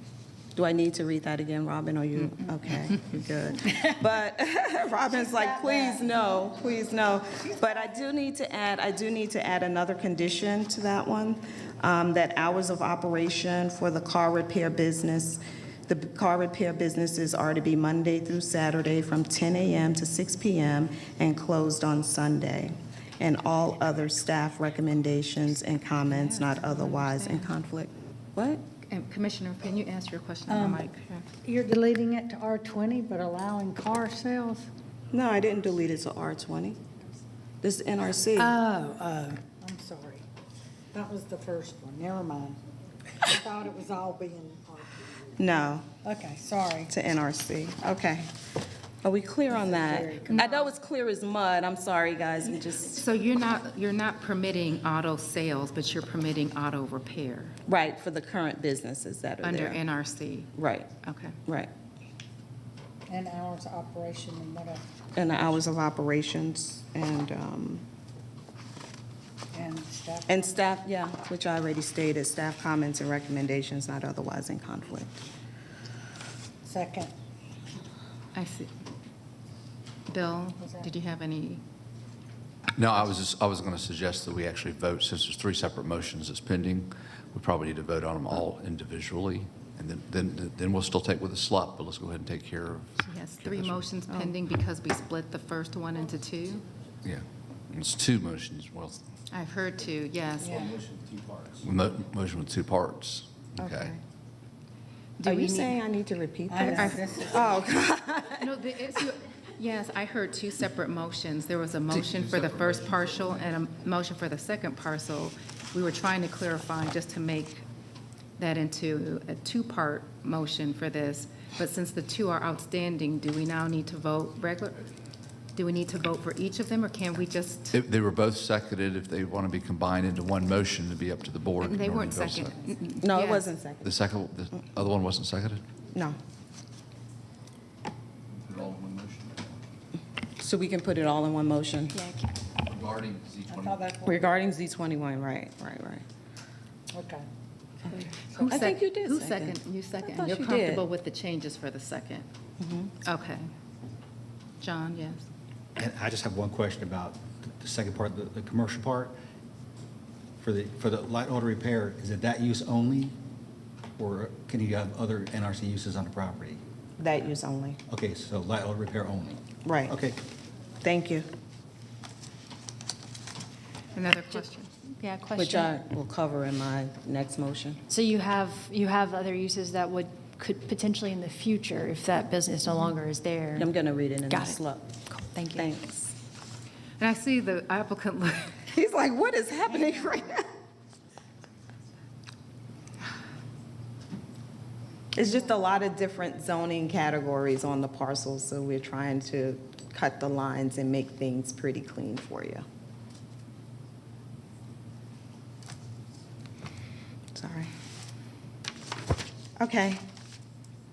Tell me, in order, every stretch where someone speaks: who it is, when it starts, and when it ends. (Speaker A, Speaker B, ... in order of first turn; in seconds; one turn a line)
Speaker A: 0.5-28.6
Speaker B: 5.5-5.9
Speaker B: 7.6-8.0
Speaker C: 26.1-27.5
Speaker C: 28.9-31.3
Speaker B: 30.5-30.9
Speaker B: 31.4-34.7
Speaker A: 35.1-36.8
Speaker A: 37.6-38.6
Speaker B: 38.4-40.2
Speaker B: 40.9-42.6
Speaker B: 43.2-45.3
Speaker A: 45.4-45.9
Speaker B: 46.0-46.9
Speaker A: 46.9-48.3
Speaker A: 49.0-53.0
Speaker B: 49.5-50.4
Speaker C: 50.3-50.7
Speaker C: 53.0-57.5
Speaker A: 57.7-59.8
Speaker C: 59.4-60.5
Speaker A: 60.5-60.9
Speaker C: 61.0-61.4
Speaker A: 61.5-61.7
Speaker B: 63.1-64.8
Speaker A: 65.2-67.8
Speaker B: 69.5-70.5
Speaker A: 70.3-75.1
Speaker B: 76.6-77.1
Speaker C: 78.3-78.7
Speaker C: 80.1-81.6
Speaker D: 82.8-93.8
Speaker C: 93.0-96.6
Speaker A: 94.1-94.3
Speaker D: 97.0-99.0
Speaker C: 99.3-100.8
Speaker B: 100.4-100.7
Speaker E: 101.0-101.4
Speaker D: 101.6-103.9
Speaker A: 103.6-104.0
Speaker C: 105.2-105.8
Speaker A: 105.2-108.5
Speaker B: 106.5-107.7
Speaker C: 106.6-107.1
Speaker C: 108.4-117.6
Speaker D: 112.1-113.0
Speaker C: 118.4-124.8
Speaker C: 125.5-127.8
Speaker D: 127.7-132.6
Speaker C: 131.6-133.4
Speaker A: 133.0-133.9
Speaker D: 133.8-135.6
Speaker D: 138.4-139.3
Speaker A: 140.4-141.9
Speaker F: 141.9-142.3
Speaker D: 142.6-143.8
Speaker B: 143.5-144.3
Speaker A: 144.0-146.0
Speaker B: 146.9-147.2
Speaker A: 147.9-150.8
Speaker B: 148.1-148.7
Speaker C: 148.3-152.2
Speaker A: 152.6-152.9
Speaker C: 153.0-153.5
Speaker C: 154.6-155.2
Speaker E: 155.8-159.2
Speaker E: 160.4-163.2
Speaker E: 164.0-166.6
Speaker A: 167.0-167.8
Speaker E: 167.9-170.2
Speaker A: 169.6-170.0
Speaker A: 170.8-171.3
Speaker C: 173.9-174.7
Speaker F: 175.0-175.7
Speaker A: 175.4-177.8
Speaker F: 177.9-183.7
Speaker A: 183.6-184.9
Speaker F: 184.3-185.8
Speaker A: 185.5-186.1
Speaker C: 187.0-188.6
Speaker A: 188.7-190.5
Speaker A: 195.1-202.6
Speaker A: 207.3-207.7
Speaker A: 209.6-210.0